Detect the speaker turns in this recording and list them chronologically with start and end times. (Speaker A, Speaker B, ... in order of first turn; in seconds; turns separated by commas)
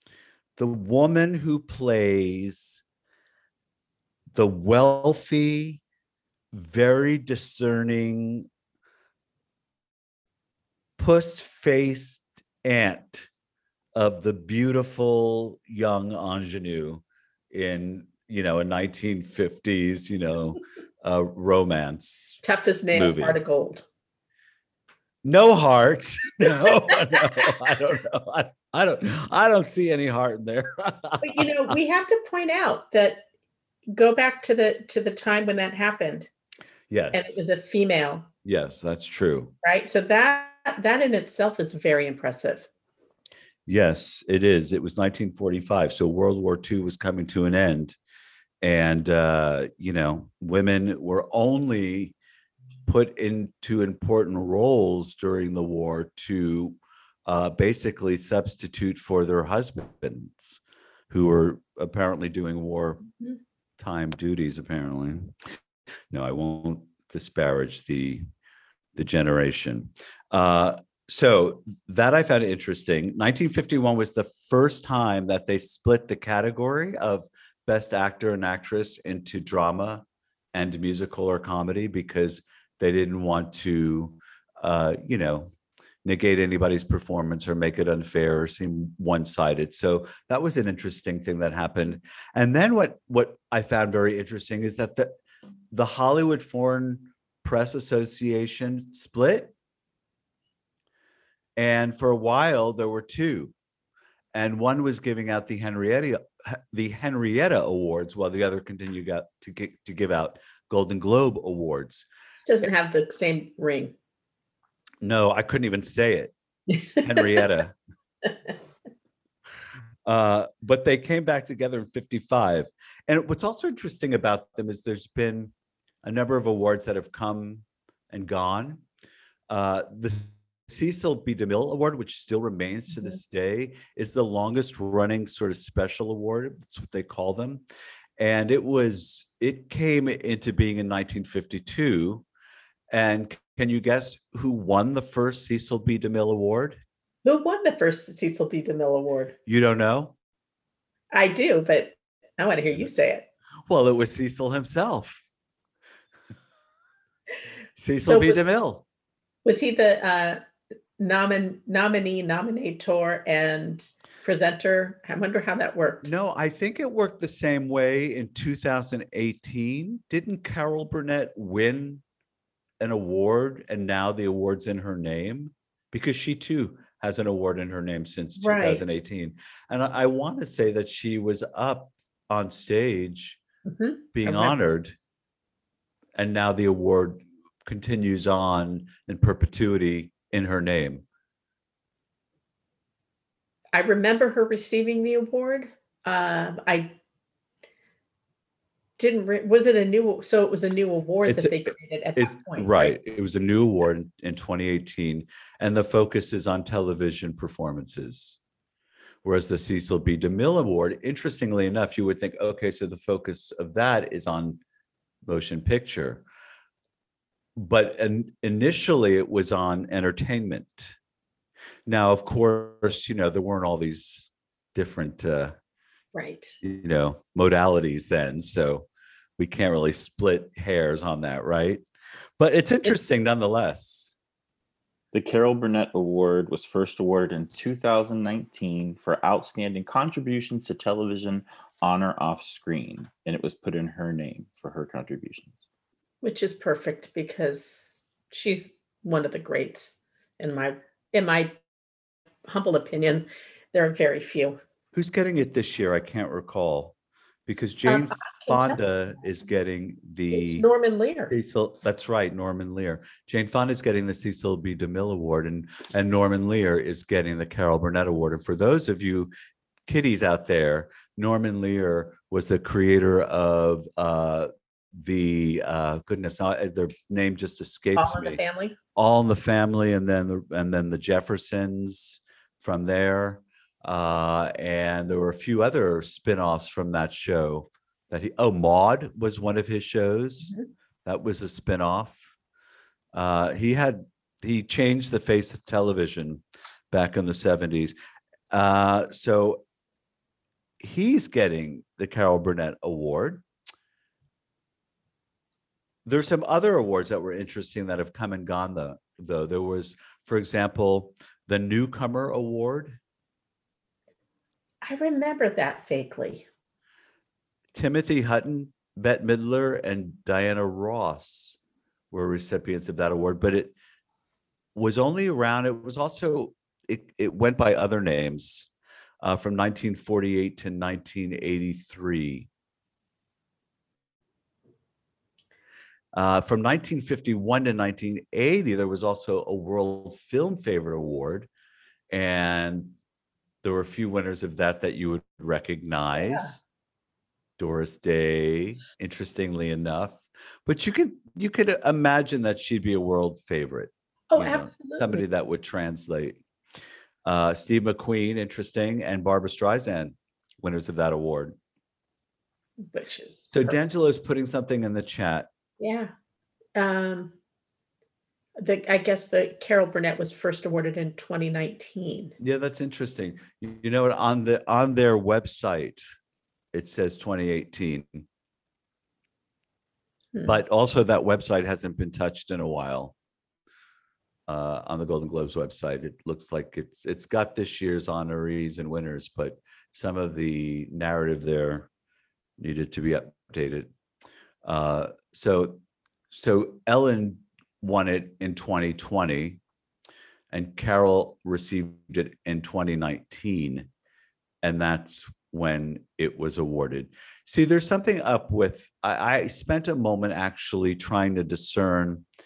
Speaker A: 0.6-2.8, Speaker A: 4.3-5.8, Speaker A: 6.5-8.5, Speaker A: 11.0-13.3, Speaker A: 13.9-22.4, Speaker B: 22.4-23.8, Speaker A: 22.9-23.4, Speaker A: 25.2-31.8, Speaker B: 31.2-33.2, Speaker B: 33.9-36.3, Speaker A: 36.9-37.4, Speaker B: 37.1-38.3, Speaker A: 38.4-39.5, Speaker B: 39.6-42.7, Speaker A: 43.7-48.0, Speaker A: 48.6-52.1, Speaker A: 52.9-63.0, Speaker A: 63.8-65.3, Speaker A: 66.1-68.2, Speaker A: 68.9-85.5, Speaker A: 86.0-95.1, Speaker A: 95.7-99.5, Speaker A: 101.6-103.5, Speaker A: 104.3-112.1, Speaker B: 112.5-113.9, Speaker A: 115.0-116.3, Speaker A: 117.0-117.8, Speaker A: 120.0-125.5, Speaker A: 126.0-128.8, Speaker A: 129.5-137.6, Speaker A: 138.2-142.2, Speaker A: 142.9-146.8, Speaker B: 147.2-149.3, Speaker A: 149.5-150.2, Speaker B: 151.1-153.2, Speaker A: 153.7-155.2, Speaker A: 157.8-158.8, Speaker B: 158.1-158.4, Speaker B: 159.4-160.4, Speaker B: 161.0-166.1, Speaker A: 166.0-172.0, Speaker A: 172.8-183.4, Speaker B: 178.4-178.9, Speaker B: 183.7-184.6, Speaker A: 184.1-184.9, Speaker A: 186.1-191.0, Speaker B: 193.7-196.9, Speaker B: 199.0-203.0, Speaker A: 201.2-208.4, Speaker A: 209.2-214.6, Speaker A: 215.2-216.2, Speaker A: 217.6-220.9, Speaker A: 221.9-225.6, Speaker B: 226.1-226.6, Speaker A: 226.6-228.9, Speaker A: 229.4-231.8, Speaker A: 232.4-234.1, Speaker C: 235.1-245.6, Speaker B: 246.2-251.6, Speaker B: 252.5-254.6, Speaker A: 254.9-256.9, Speaker A: 257.5-260.6, Speaker B: 257.9-258.8, Speaker B: 260.3-261.3, Speaker A: 261.3-269.3, Speaker A: 269.9-278.4, Speaker B: 277.9-278.8, Speaker A: 278.9-290.5, Speaker A: 291.0-292.3, Speaker A: 293.1-297.9, Speaker A: 298.5-299.6, Speaker A: 300.8-303.4, Speaker A: 306.0-313.0, Speaker B: 314.8-316.4, Speaker A: 317.7-321.6, Speaker A: 322.1-323.7, Speaker A: 324.7-328.7, Speaker A: 329.2-332.5, Speaker A: 336.1-341.5, Speaker A: 342.1-342.9, Speaker A: 343.6-346.6, Speaker B: 346.2-346.5, Speaker A: 347.6-356.4, Speaker B: 354.3-355.2, Speaker A: 357.2-361.6, Speaker B: 362.9-363.8, Speaker A: 363.5-365.5, Speaker B: 365.8-366.1, Speaker B: 366.8-367.3, Speaker B: 368.6-372.3, Speaker A: 372.4-376.0, Speaker A: 376.7-378.3, Speaker A: 380.4-383.1, Speaker A: 384.5-391.9, Speaker A: 392.6-393.9, Speaker A: 394.6-395.8, Speaker A: 396.3-399.6, Speaker A: 400.5-403.9, Speaker A: 404.6-412.2